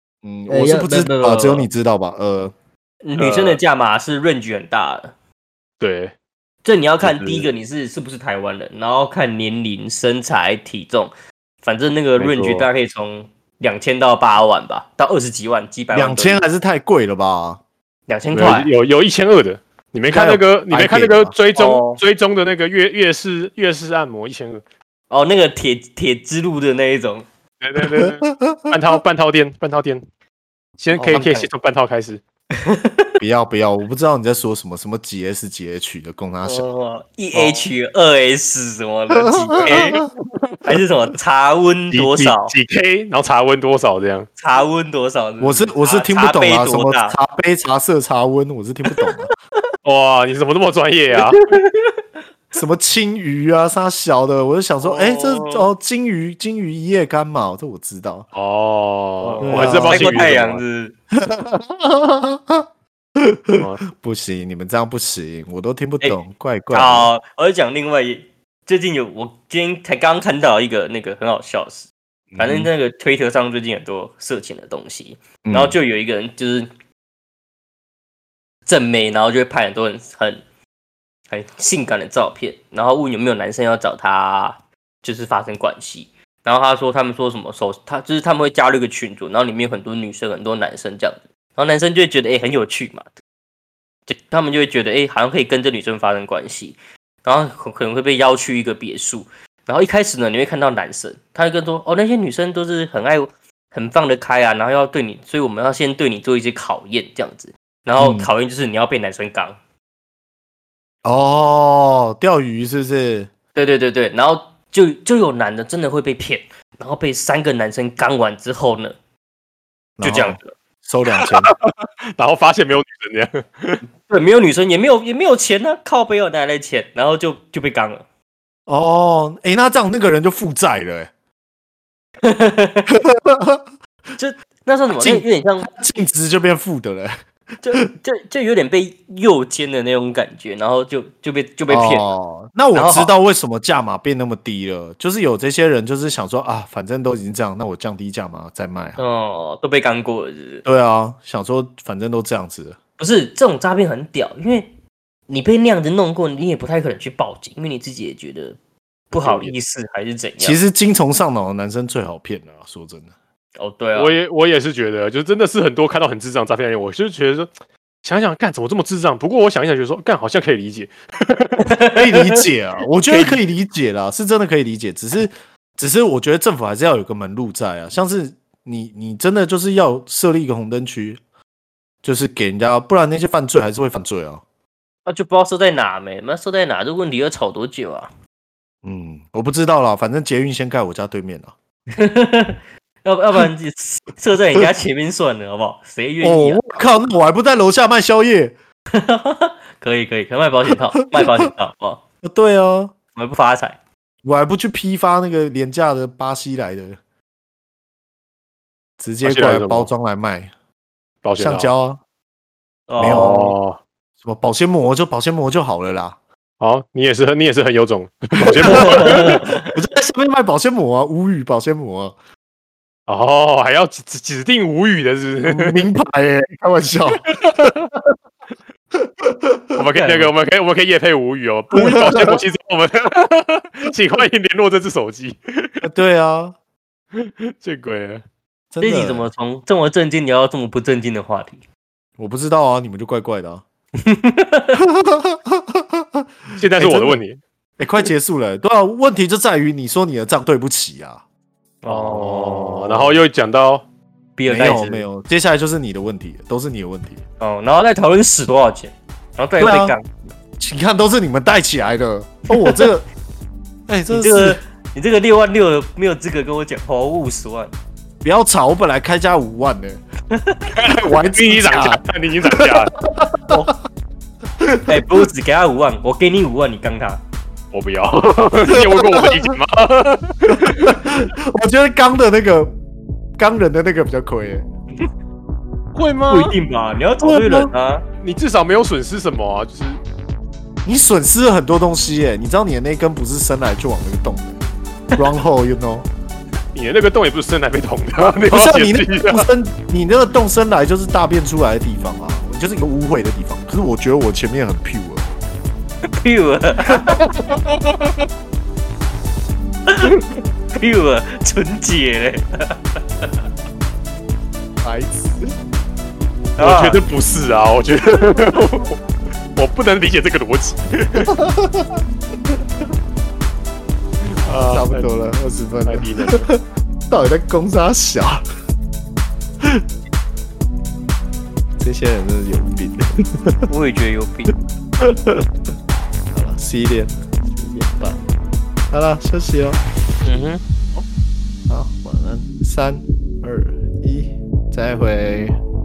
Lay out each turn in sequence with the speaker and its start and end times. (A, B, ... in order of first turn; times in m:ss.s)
0:00.2-0:02.5 A
0:00.5-0:01.7 B
0:03.0-0:05.1 B
0:03.2-0:03.6 C
0:05.8-0:06.1 C
0:06.6-0:11.1 B
0:07.0-0:07.5 C
0:11.6-0:16.4 B
0:12.2-0:12.7 C
0:15.9-0:17.6 A
0:18.1-0:18.7 B
0:18.3-0:24.6 C
0:20.0-0:21.3 A
0:21.5-0:22.0 B
0:25.1-0:27.2 B
0:27.6-0:30.0 C
0:27.8-0:29.0 A
0:30.8-0:32.2 C
0:31.0-0:31.4 A
0:31.1-0:31.4 B
0:32.6-0:33.2 B
0:33.2-0:36.6 A
0:36.4-0:40.0 B
0:39.1-0:40.1 A
0:39.7-0:40.1 C
0:40.6-0:42.5 B
0:41.9-0:44.3 C
0:44.4-0:47.2 B
0:45.4-0:49.3 A
0:48.9-0:49.2 B
0:49.8-0:51.4 C
0:51.2-0:52.0 B
0:52.5-0:58.2 A
0:54.8-0:55.7 B
0:58.3-1:00.6 C
0:59.2-1:00.9 B
0:59.4-1:00.3 A
1:01.1-1:02.6 A
1:03.2-1:07.1 A
1:03.5-1:03.8 C
1:06.7-1:16.7 B
1:12.3-1:12.7 A
1:15.4-1:15.8 A
1:18.6-1:20.4 B
1:21.3-1:33.1 B
1:34.1-1:49.6 B
1:48.0-1:48.3 A
1:51.0-1:53.3 A
1:53.5-1:59.0 B
2:00.0-2:01.5 A
2:00.0-2:00.6 B
2:01.1-2:03.8 C
2:04.1-2:08.0 B
2:08.7-2:11.1 A
2:12.2-2:13.0 B
2:12.9-2:13.6 A
2:14.2-2:15.7 B
2:14.9-2:17.1 A
2:17.6-2:22.1 B
2:21.7-2:29.0 A
2:22.7-2:23.1 B
2:29.0-2:30.6 B
2:30.6-2:32.8 A
2:33.0-2:34.7 B
2:35.3-2:38.6 B
2:39.1-2:40.6 B
2:39.2-2:39.5 A
2:40.4-2:43.1 A
2:43.6-2:44.2 B
2:44.0-2:47.5 C
2:48.0-2:51.7 C
2:51.6-2:52.5 B
2:51.9-3:01.2 A
2:53.1-2:53.4 B
3:02.0-3:04.4 A
3:05.0-3:08.1 B
3:08.8-3:11.5 A
3:11.9-3:16.8 B
3:16.2-3:18.5 A
3:18.9-3:22.0 B
3:22.2-3:22.9 A
3:23.1-3:23.8 B
3:24.2-3:27.0 A
3:29.0-3:30.5 A
3:29.2-3:29.9 C
3:31.2-3:31.7 C
3:31.4-3:32.0 A
3:32.9-3:33.6 B
3:33.0-3:33.3 A
3:33.0-3:33.8 C
3:34.2-3:36.2 A
3:36.6-3:39.4 C
3:38.4-3:42.1 A
3:38.6-3:39.7 B
3:43.1-3:45.9 C
3:45.4-3:48.0 A
3:47.2-3:47.9 C
3:49.1-3:49.8 A
3:49.8-3:55.8 C
3:49.9-3:50.3 B
3:51.7-3:52.4 A
3:55.8-3:56.5 A
3:57.1-3:58.2 C
3:58.7-3:59.3 A
3:58.8-4:01.6 B
4:02.2-4:03.6 A
4:04.0-4:04.8 B
4:04.8-4:07.2 A
4:06.6-4:07.4 C
4:07.8-4:11.2 A
4:11.8-4:12.8 B
4:11.9-4:13.8 C
4:12.9-4:13.2 A
4:14.4-4:15.0 B
4:14.5-4:17.2 A
4:17.4-4:20.1 B
4:19.6-4:20.0 A
4:20.6-4:23.0 A
4:22.6-4:22.9 B
4:23.9-4:24.6 A
4:24.1-4:27.7 B
4:28.2-4:30.0 A
4:30.3-4:30.7 B
4:30.7-4:33.0 C
4:30.9-4:33.6 A
4:33.5-4:33.7 B
4:34.6-4:35.1 A
4:34.8-4:37.2 B
4:37.7-4:41.1 C
4:38.6-4:39.5 A
4:40.5-4:42.7 A
4:43.4-4:44.6 A
4:45.9-4:46.5 C
4:46.3-4:48.0 B
4:47.2-4:47.7 A
4:48.2-4:50.0 C
4:50.8-4:54.6 A
4:55.2-4:56.1 A
4:56.7-4:59.5 C
4:58.2-5:05.4 A
5:06.2-5:07.2 B
5:07.4-5:08.2 C
5:10.0-5:10.4 C
5:10.8-5:13.3 B
5:14.8-5:15.5 A
5:16.6-5:17.0 B
5:16.6-5:19.0 C
5:19.6-5:21.4 C
5:21.2-5:22.0 A
5:24.4-5:25.0 C
5:24.6-5:28.4 A
5:25.8-5:26.5 C
5:31.8-5:33.7 A
5:33.7-5:34.5 B
5:35.0-5:35.4 A
5:36.3-5:38.2 A
5:38.9-5:39.8 A
5:40.2-5:40.6 B
5:41.7-5:45.6 A